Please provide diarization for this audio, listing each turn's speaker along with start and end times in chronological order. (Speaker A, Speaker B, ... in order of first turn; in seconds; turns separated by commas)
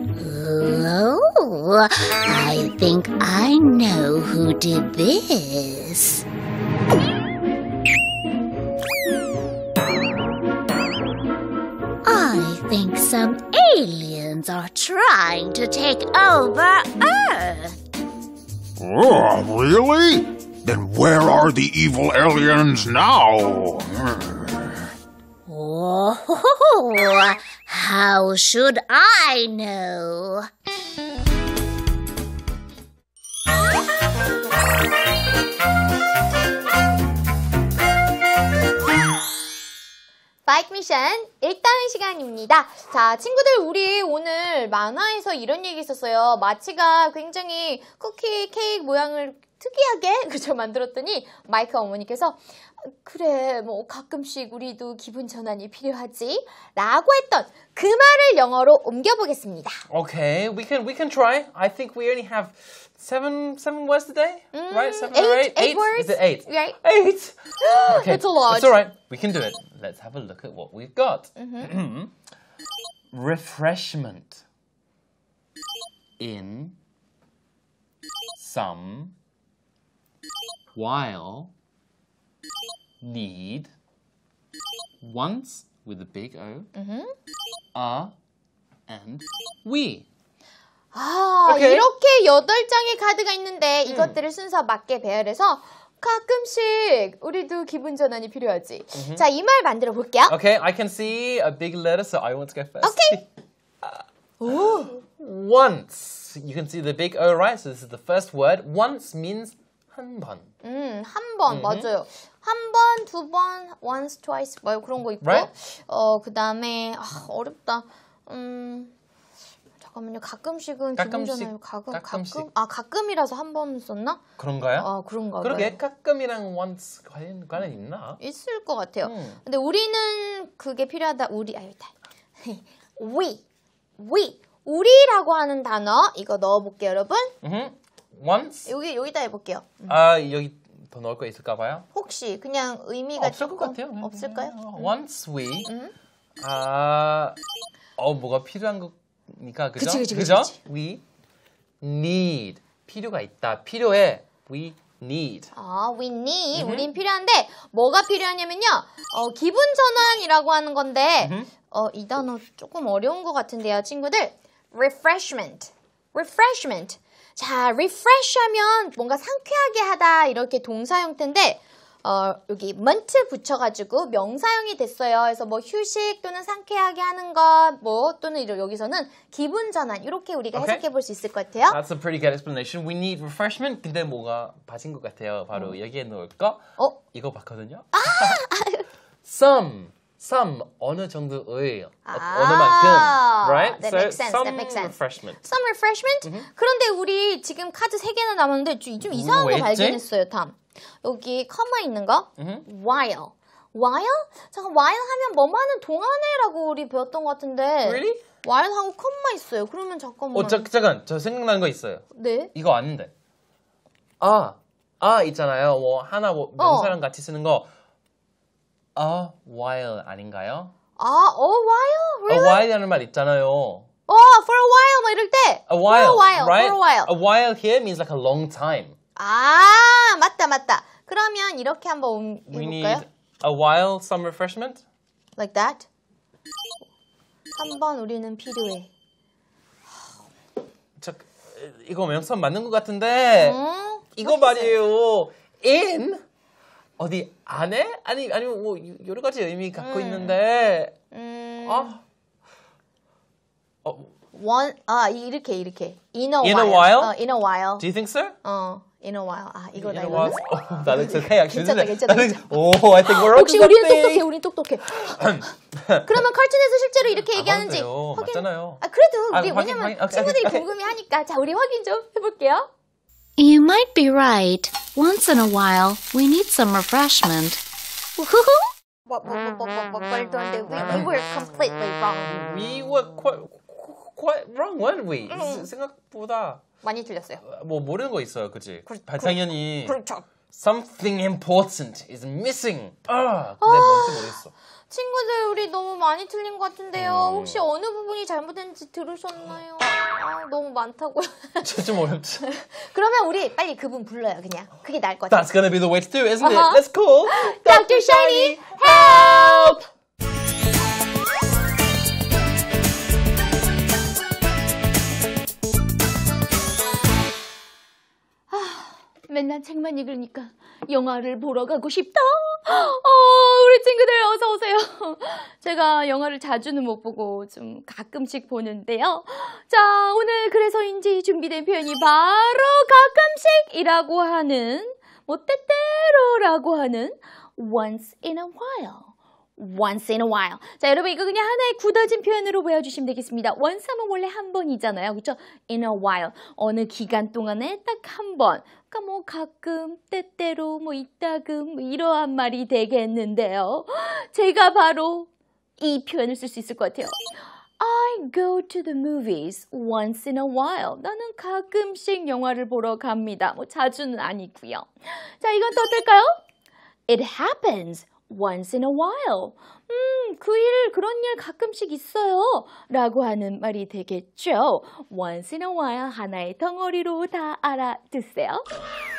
Speaker A: 0.2-6.2, Speaker A: 12.0-17.8, Speaker B: 18.8-24.6, Speaker A: 25.4-30.5, Speaker C: 40.5-59.8, Speaker D: 59.9-72.1, Speaker C: 64.5-66.8, Speaker C: 67.6-68.8, Speaker C: 71.3-71.7, Speaker D: 73.1-74.4, Speaker D: 76.2-76.8, Speaker D: 78.4-79.1, Speaker D: 80.7-81.5, Speaker D: 83.0-83.7, Speaker D: 85.0-86.7, Speaker C: 86.7-87.1, Speaker D: 87.7-88.1, Speaker D: 88.9-90.0, Speaker C: 90.9-100.3, Speaker D: 91.5-91.9, Speaker D: 93.9-94.1, Speaker D: 98.9-99.2, Speaker D: 100.3-103.2, Speaker C: 102.8-103.2, Speaker D: 103.8-110.5, Speaker C: 104.4-104.9, Speaker C: 110.6-118.9, Speaker D: 111.5-111.9, Speaker D: 115.2-115.5, Speaker C: 119.8-124.2, Speaker D: 121.0-122.5, Speaker D: 124.4-128.2, Speaker C: 124.8-125.8, Speaker C: 128.2-133.4, Speaker D: 129.0-129.4, Speaker C: 134.0-137.3, Speaker D: 137.4-138.7, Speaker C: 138.7-140.0, Speaker D: 139.8-141.8, Speaker C: 141.9-144.9, Speaker D: 143.2-145.7, Speaker C: 145.6-145.9, Speaker D: 146.4-147.4, Speaker D: 148.0-151.0, Speaker C: 149.8-150.6, Speaker D: 151.8-155.5, Speaker C: 155.5-181.8, Speaker D: 156.5-156.9, Speaker D: 161.2-161.5, Speaker D: 180.5-180.8, Speaker D: 181.7-188.4, Speaker C: 187.9-188.8, Speaker D: 189.2-195.4, Speaker C: 192.1-210.7, Speaker D: 199.0-200.0, Speaker D: 202.4-202.7, Speaker D: 207.8-208.2, Speaker D: 210.3-213.1, Speaker C: 212.1-212.5, Speaker D: 214.2-217.7, Speaker C: 216.6-216.9, Speaker D: 218.9-220.7, Speaker C: 221.0-222.7, Speaker D: 222.3-223.9, Speaker C: 224.1-227.1, Speaker D: 225.7-228.9, Speaker C: 229.2-233.0, Speaker D: 232.5-234.8, Speaker C: 235.4-235.9, Speaker C: 237.6-238.9, Speaker D: 241.0-243.6, Speaker C: 243.4-244.8, Speaker D: 244.1-246.2, Speaker D: 247.0-250.9, Speaker C: 249.8-250.4, Speaker C: 251.1-251.9, Speaker D: 251.6-252.0, Speaker D: 253.8-254.1, Speaker C: 254.3-257.9, Speaker D: 256.4-257.2, Speaker D: 257.7-258.4, Speaker C: 258.4-260.4, Speaker D: 259.7-264.3, Speaker C: 260.9-262.5, Speaker C: 263.0-264.9, Speaker D: 264.9-266.2, Speaker C: 266.0-272.7, Speaker D: 267.3-270.6, Speaker E: 273.6-277.6, Speaker A: 278.2-278.6, Speaker C: 279.1-282.3, Speaker D: 282.2-286.6, Speaker C: 285.3-285.7, Speaker C: 286.8-287.4, Speaker D: 287.4-290.0, Speaker C: 288.9-290.2, Speaker D: 290.5-294.5, Speaker C: 293.6-294.4, Speaker C: 294.9-301.7, Speaker D: 296.9-297.6, Speaker D: 301.6-302.4, Speaker C: 302.4-305.4, Speaker D: 305.3-309.8, Speaker C: 306.4-309.8, Speaker C: 318.5-357.2, Speaker C: 357.8-366.3, Speaker C: 367.1-378.6